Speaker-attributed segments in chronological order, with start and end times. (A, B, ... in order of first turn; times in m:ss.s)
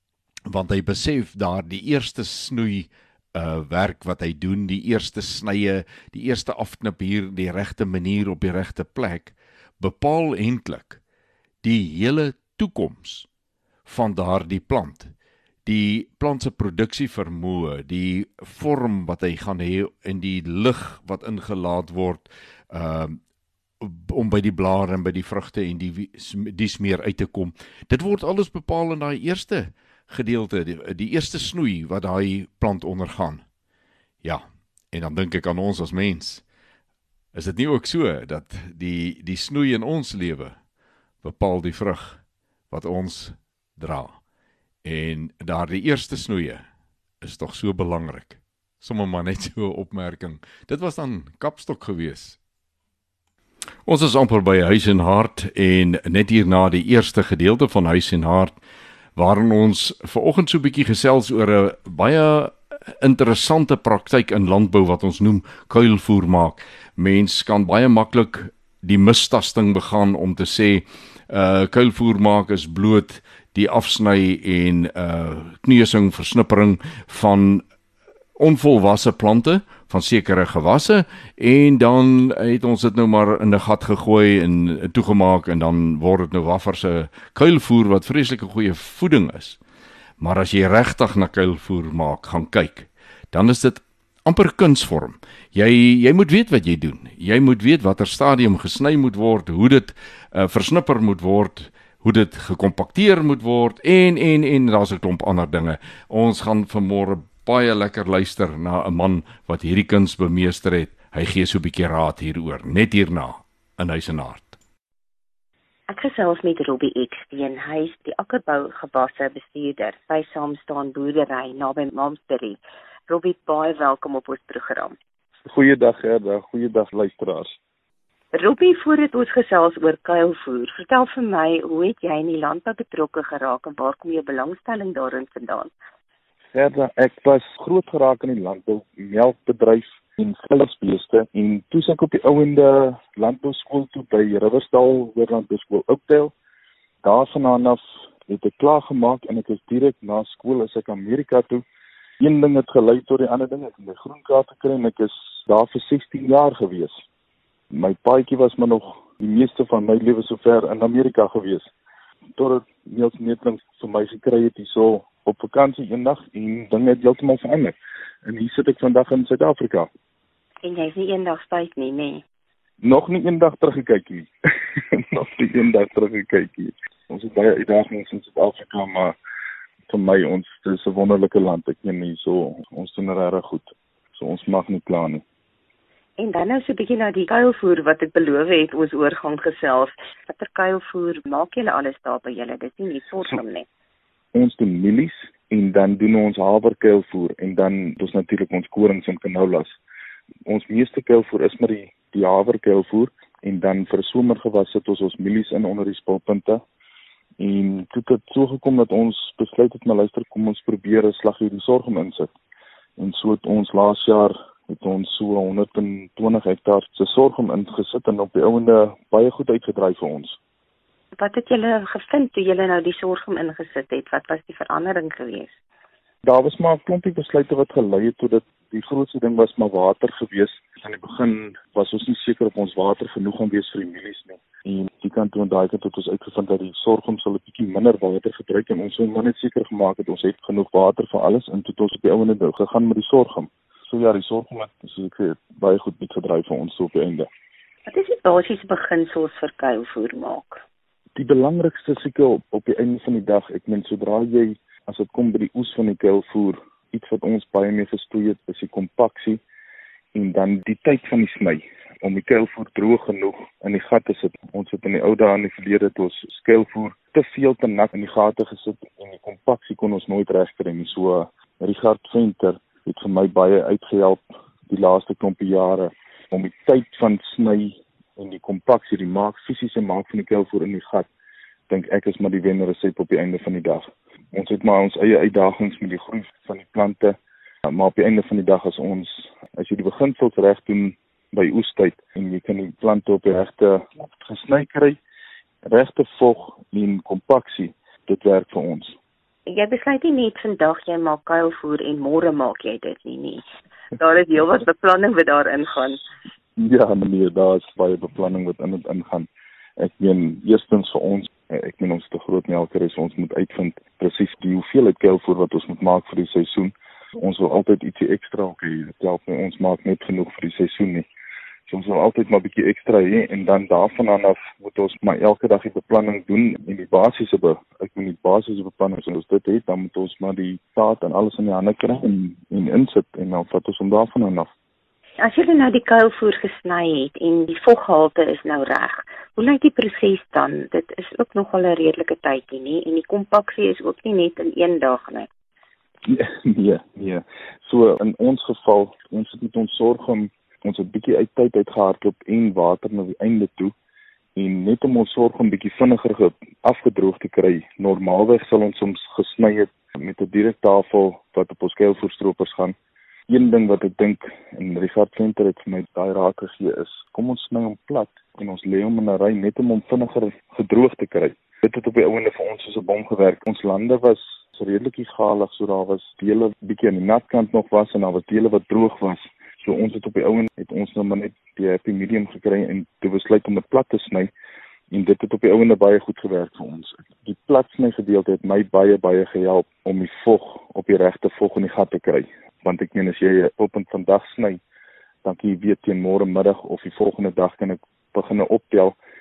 0:00.5-0:11.0 A
0:11.6-0:13.3 A
0:13.8-0:15.1 A
0:15.6-0:23.2 A
0:23.8-0:33.4 A
0:34.2-0:36.4 A
0:37.3-0:40.6 A
0:41.2-0:44.2 A
0:44.8-0:46.6 A
0:47.2-0:52.4 A
0:53.8-0:58.6 A
0:59.2-1:17.6 A
1:18.4-1:29.6 A
1:30.2-1:54.6 A
1:55.9-2:05.0 B
2:05.4-2:07.6 C
2:08.3-2:15.7 B
2:16.5-2:26.3 C
2:27.0-2:31.6 C
2:32.2-2:37.0 C
2:37.7-2:41.7 C
2:42.4-2:49.9 C
2:50.6-2:52.2 B
2:52.8-2:54.3 C
2:54.9-2:59.2 C
2:59.9-3:05.2 C
3:06.2-3:13.6 B
3:14.3-3:19.8 C
3:20.4-3:26.6 C
3:27.4-3:32.3 C
3:33.0-3:40.4 C
3:41.1-3:45.5 B
3:46.2-4:07.3 C
4:07.9-4:10.6 B
4:11.2-4:19.4 C
4:20.1-4:41.1 C
4:41.7-4:55.0 C
4:55.6-4:58.9 C
4:59.5-5:06.0 B
5:06.6-5:09.3 C
5:09.8-5:21.1 C
5:21.7-5:34.5 C
5:35.2-5:45.3 B
5:46.1-5:53.7 C
5:54.4-6:02.8 C
6:03.3-6:24.3 C
6:24.9-6:34.6 C
6:35.2-6:39.0 C